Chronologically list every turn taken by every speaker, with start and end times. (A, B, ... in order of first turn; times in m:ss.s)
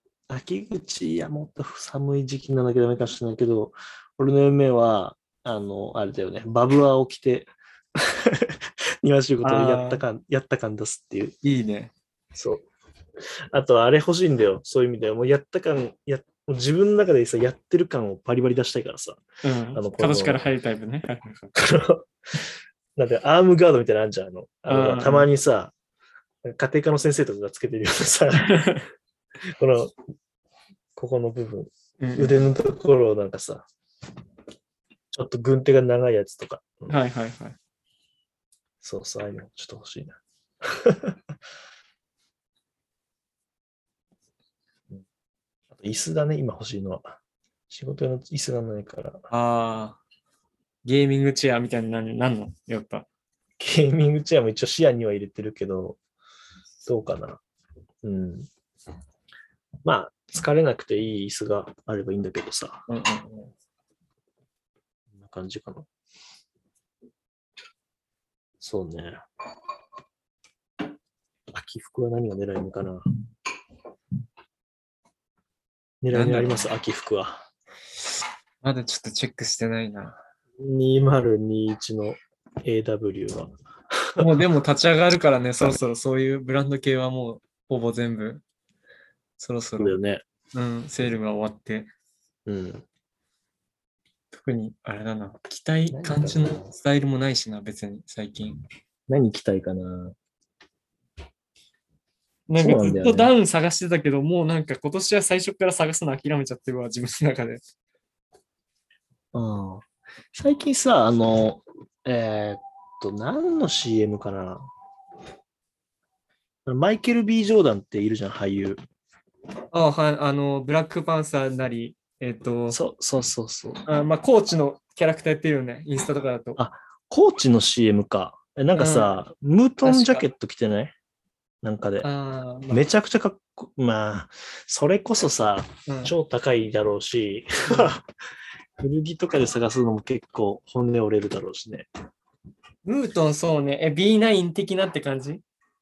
0:00.3-0:11.4 A
0:09.4-0:10.0 B
0:11.4-0:11.9 B
0:12.4-0:12.7 A
0:13.5-0:19.2 A
0:19.4-0:21.5 B
0:19.7-0:20.4 A
0:21.5-0:25.7 A
0:24.7-0:25.3 B
0:26.4-0:28.8 A
0:28.4-0:28.9 B
0:29.4-0:29.9 A
0:31.0-0:33.7 A
0:32.0-0:32.4 B
0:35.1-0:37.0 A
0:36.9-0:37.6 B
0:38.8-0:41.2 A
0:45.7-0:47.2 A
0:47.7-0:49.2 A
0:49.3-0:50.0 B
0:50.8-0:53.1 B
0:53.6-0:56.0 A
0:56.9-0:57.4 A
0:58.0-0:58.5 A
0:59.8-1:02.9 A
1:02.9-1:03.3 B
1:05.1-1:05.9 A
1:08.6-1:09.2 A
1:11.5-1:13.1 A
1:16.0-1:17.4 A
1:16.1-1:16.7 B
1:18.6-1:20.2 B
1:20.6-1:24.4 A
1:24.2-1:28.4 B
1:29.4-1:30.0 B
1:29.8-1:30.2 A
1:30.5-1:31.9 B
1:32.5-1:32.8 A
1:34.3-1:38.6 B
1:35.9-1:36.7 A
1:39.1-1:40.2 A
1:42.5-1:47.6 B
1:42.6-1:43.3 A
1:49.3-1:54.7 A
1:56.7-1:58.8 A
1:59.7-2:02.8 B
2:02.7-2:03.8 A
2:03.8-2:06.6 B
2:06.6-2:10.9 A
2:08.7-2:09.2 B
2:09.8-2:10.2 B
2:11.6-2:12.1 A
2:12.0-2:12.8 B
2:12.7-2:18.0 A
2:15.9-2:16.1 B
2:18.8-2:21.9 A
2:22.8-2:25.4 B